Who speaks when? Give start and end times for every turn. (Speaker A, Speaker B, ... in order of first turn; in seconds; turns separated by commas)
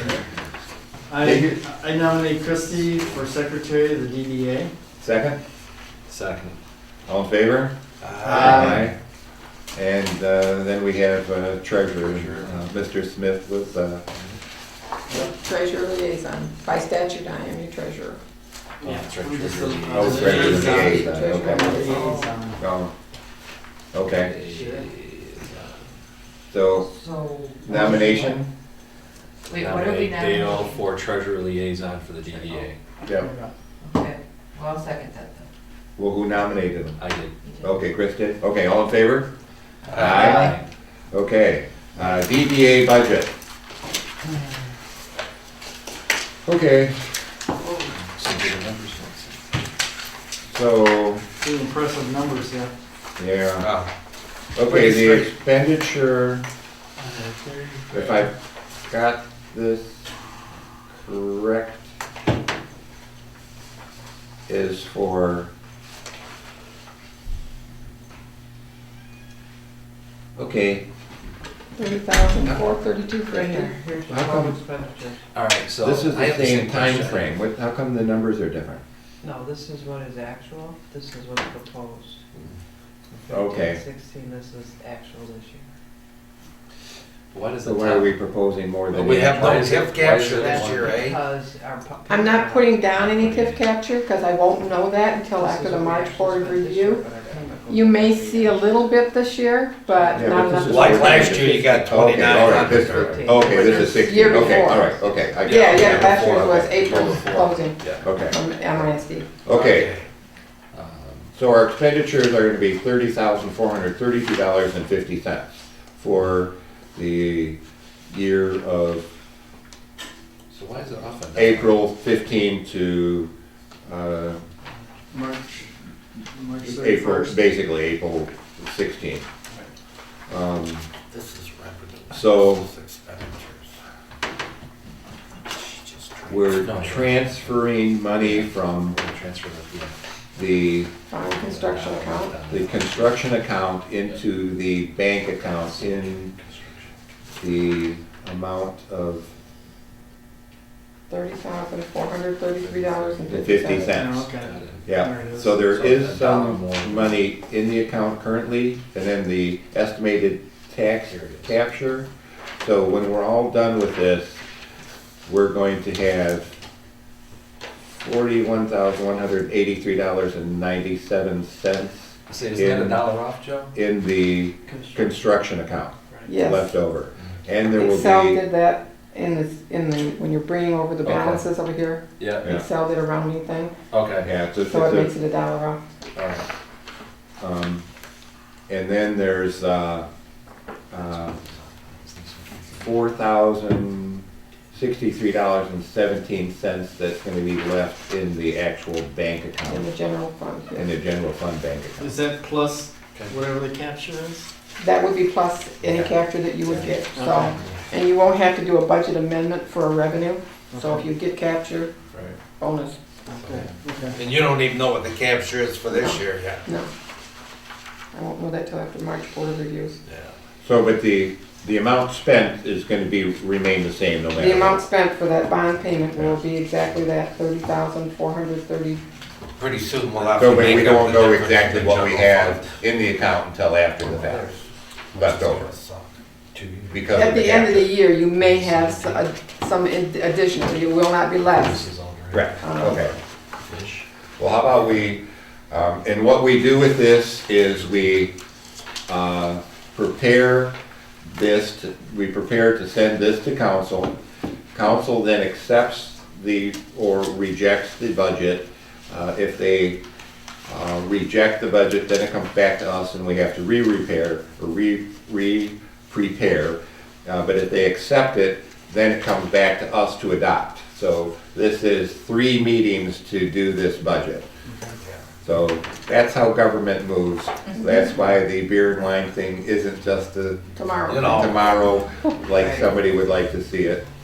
Speaker A: 1.1-4.7, Speaker B: 1.2-1.6, Speaker C: 2.8-3.2, Speaker B: 5.0-5.4, Speaker C: 6.1-6.6, Speaker B: 7.1-7.7, Speaker D: 8.0-8.9, Speaker A: 8.2-8.9, Speaker B: 8.2-8.9, Speaker B: 9.8-14.0, Speaker C: 12.0-12.7, Speaker C: 14.1-14.4, Speaker E: 15.1-18.2, Speaker A: 18.8-22.6, Speaker C: 18.8-20.9, Speaker B: 19.9-21.9, Speaker E: 20.2-22.0, Speaker F: 21.9-22.5, Speaker B: 22.6-22.9, Speaker B: 23.9-24.3, Speaker C: 24.0-25.8, Speaker A: 24.5-24.9, Speaker B: 26.5-26.9, Speaker F: 26.8-28.4, Speaker B: 27.6-28.5, Speaker F: 29.5-30.8, Speaker C: 29.5-32.8, Speaker F: 32.3-32.7, Speaker A: 33.1-33.5, Speaker F: 33.8-35.5, Speaker B: 36.0-37.0, Speaker C: 37.0-37.3, Speaker F: 37.4-37.8, Speaker B: 37.6-39.3, Speaker D: 39.9-40.3, Speaker F: 39.9-40.4, Speaker B: 39.9-40.6, Speaker C: 40.3-40.6, Speaker B: 41.1-43.3, Speaker B: 46.5-47.0, Speaker C: 47.9-49.4, Speaker B: 50.5-51.2, Speaker A: 51.4-52.7, Speaker B: 53.2-53.7, Speaker D: 53.6-53.9, Speaker B: 54.5-56.4, Speaker D: 54.6-55.3, Speaker A: 57.0-58.2, Speaker B: 57.9-58.4, Speaker B: 58.9-60.1, Speaker B: 61.0-61.8, Speaker B: 64.5-65.5, Speaker B: 70.3-70.8, Speaker E: 71.8-73.8, Speaker B: 72.3-72.6, Speaker F: 73.3-75.2, Speaker B: 74.1-74.6, Speaker C: 75.3-77.3, Speaker B: 75.8-78.8, Speaker F: 79.2-82.2, Speaker F: 83.1-85.7, Speaker B: 83.3-83.8, Speaker C: 87.3-88.1, Speaker B: 87.7-89.6, Speaker D: 88.9-91.2, Speaker C: 89.0-91.0, Speaker F: 90.3-92.9, Speaker E: 92.1-97.1, Speaker C: 92.9-93.6, Speaker F: 95.4-98.6, Speaker E: 97.7-101.5, Speaker B: 100.2-107.2, Speaker D: 100.6-103.5, Speaker F: 102.2-104.0, Speaker C: 102.7-103.0, Speaker E: 103.5-109.3, Speaker C: 105.4-108.2, Speaker B: 108.0-108.4, Speaker B: 109.5-109.9, Speaker D: 109.5-110.1, Speaker C: 110.7-111.3, Speaker B: 111.4-117.6, Speaker B: 118.1-119.1, Speaker C: 120.5-121.8, Speaker B: 121.3-123.3, Speaker B: 123.9-124.4, Speaker A: 125.1-125.7, Speaker A: 126.3-127.4, Speaker B: 126.6-129.2, Speaker B: 130.3-130.8, Speaker D: 131.1-133.7, Speaker B: 132.1-132.7, Speaker D: 135.5-137.1, Speaker B: 136.3-139.0, Speaker C: 136.6-137.6, Speaker C: 138.2-139.9, Speaker B: 140.4-140.9, Speaker E: 141.1-142.3, Speaker C: 141.2-143.1, Speaker B: 142.5-146.3, Speaker C: 145.5-146.9, Speaker B: 147.4-149.3, Speaker E: 151.1-153.9, Speaker C: 152.6-154.9, Speaker B: 153.3-154.2, Speaker A: 153.9-155.6, Speaker B: 154.8-162.1, Speaker C: 155.6-157.2, Speaker C: 161.1-161.5, Speaker B: 162.6-164.4, Speaker B: 165.2-166.5, Speaker B: 168.0-173.0, Speaker C: 172.3-173.7, Speaker B: 173.7-178.4, Speaker A: 174.7-175.1, Speaker E: 176.3-176.7, Speaker E: 177.7-183.7, Speaker C: 181.0-181.5, Speaker C: 182.2-182.5, Speaker C: 183.9-184.3, Speaker B: 184.2-185.2, Speaker E: 184.6-185.8, Speaker C: 186.2-186.4, Speaker B: 187.4-187.8, Speaker B: 188.7-190.1, Speaker B: 190.9-191.4, Speaker C: 191.0-192.9, Speaker B: 192.8-199.9, Speaker E: 199.7-200.9, Speaker B: 200.7-202.2, Speaker A: 202.0-204.5, Speaker C: 203.1-203.4, Speaker E: 204.8-211.9, Speaker C: 205.8-206.9, Speaker A: 207.1-207.6, Speaker C: 207.5-207.8, Speaker A: 210.7-211.1, Speaker E: 212.6-213.0, Speaker A: 213.3-214.2, Speaker C: 213.3-213.8, Speaker D: 214.1-216.6, Speaker E: 215.9-216.9, Speaker E: 218.1-220.0, Speaker D: 220.0-220.3, Speaker B: 220.6-224.8, Speaker E: 224.3-229.0, Speaker D: 229.6-232.8, Speaker B: 230.4-234.4, Speaker D: 234.0-237.0, Speaker B: 235.1-235.7, Speaker B: 236.9-237.9, Speaker E: 237.1-241.9, Speaker C: 238.4-239.3, Speaker C: 241.4-243.1, Speaker B: 242.3-243.1, Speaker E: 242.6-243.0, Speaker C: 243.7-244.0, Speaker B: 244.4-248.3, Speaker B: 249.1-250.7, Speaker B: 251.3-254.1, Speaker B: 254.7-260.0, Speaker B: 260.7-274.5, Speaker A: 274.6-275.0, Speaker D: 275.0-275.2, Speaker B: 275.4-284.1, Speaker E: 280.8-282.4, Speaker D: 281.1-281.6, Speaker F: 282.6-282.9